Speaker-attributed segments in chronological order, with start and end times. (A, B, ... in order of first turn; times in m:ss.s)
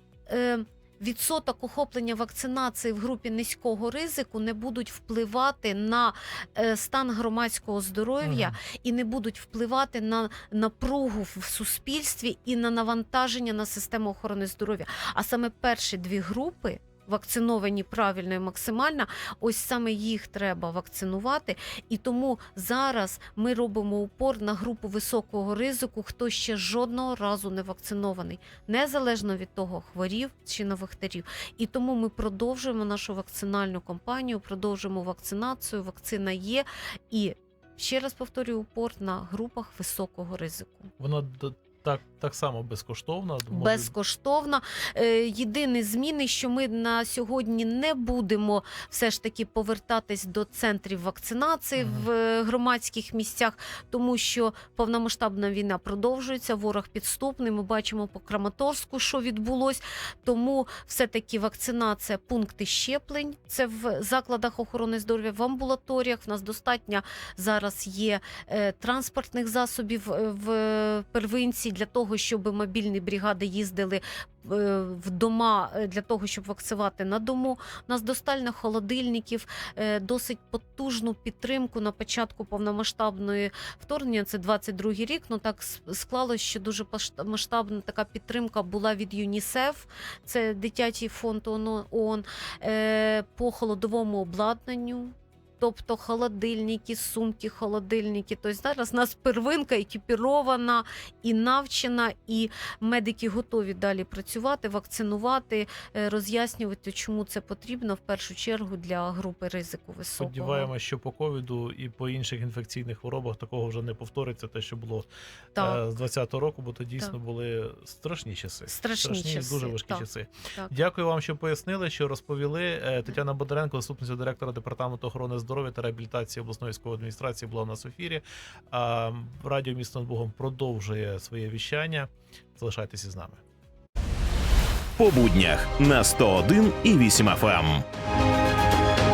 0:00.3-0:40.9 A
0:08.2-0:08.6 B
0:41.0-0:43.9 B
0:43.5-1:50.7 A
0:51.8-0:52.1 B
1:50.2-2:13.4 B
1:55.6-1:55.8 A
1:58.7-2:00.8 A
2:15.0-2:17.8 C